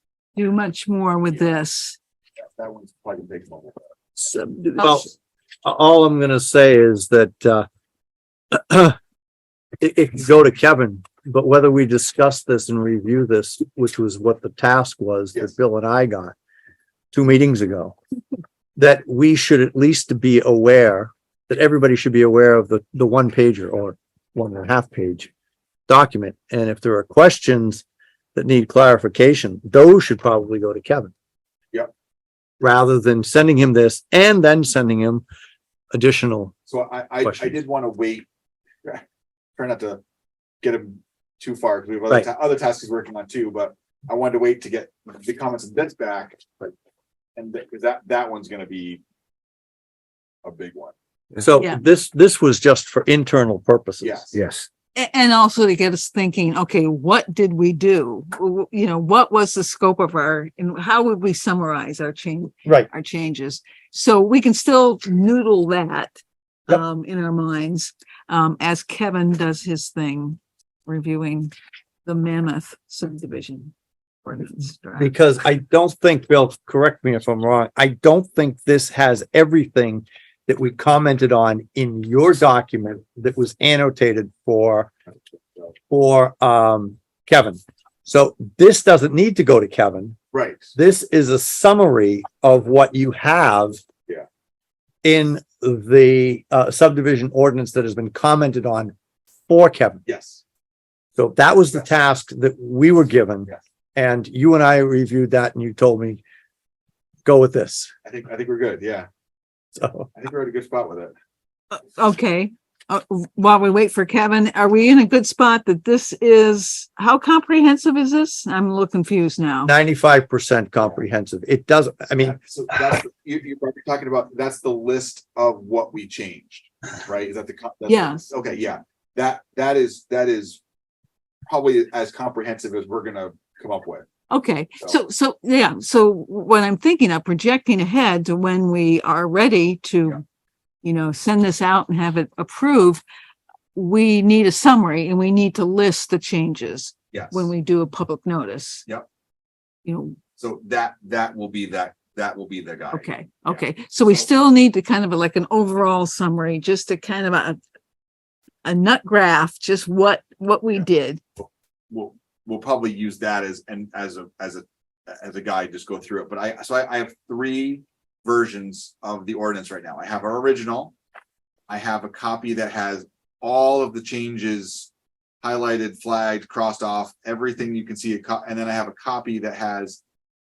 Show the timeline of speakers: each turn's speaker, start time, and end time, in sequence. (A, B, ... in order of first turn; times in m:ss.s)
0:00.3-0:02.0 A
0:02.6-0:03.8 B
0:04.2-0:05.1 A
0:04.8-0:05.1 C
0:05.6-0:07.6 C
0:08.5-0:09.0 C
0:09.8-0:16.3 C
0:17.1-0:18.0 C
0:18.8-0:25.3 C
0:25.9-0:27.8 C
0:28.3-0:31.1 C
0:32.6-0:35.2 C
0:35.9-0:36.5 C
0:36.7-0:38.2 B
0:37.2-0:37.6 C
0:39.6-0:40.0 B
0:40.6-0:46.7 B
0:47.4-0:49.0 B
0:50.4-0:50.9 B
0:51.4-0:54.3 C
0:54.0-0:54.4 B
0:54.9-1:06.1 A
1:06.7-1:11.5 A
1:12.0-1:13.7 A
1:14.2-1:15.1 A
1:15.0-1:24.9 C
1:25.9-1:30.2 C
1:30.3-1:30.7 B
1:30.8-1:33.8 C
1:35.0-1:38.9 C
1:39.5-1:40.0 C
1:40.0-1:40.4 B
1:41.2-1:46.2 C
1:47.2-1:47.9 C
1:48.0-1:49.1 B
1:49.8-1:50.1 C
1:50.1-1:51.1 B
1:51.7-1:59.7 A
1:59.6-2:02.4 C
2:02.2-2:10.6 B
2:07.8-2:08.2 A
2:11.4-2:14.1 B
2:14.3-2:20.2 A
2:20.8-2:23.0 A
2:23.7-2:28.9 A
2:27.1-2:27.5 B
2:29.8-2:30.2 A
2:30.4-2:33.6 B
2:32.9-2:37.6 A
2:38.6-2:41.2 A
2:41.4-2:50.9 B
2:51.7-2:54.9 B
2:55.4-3:00.0 B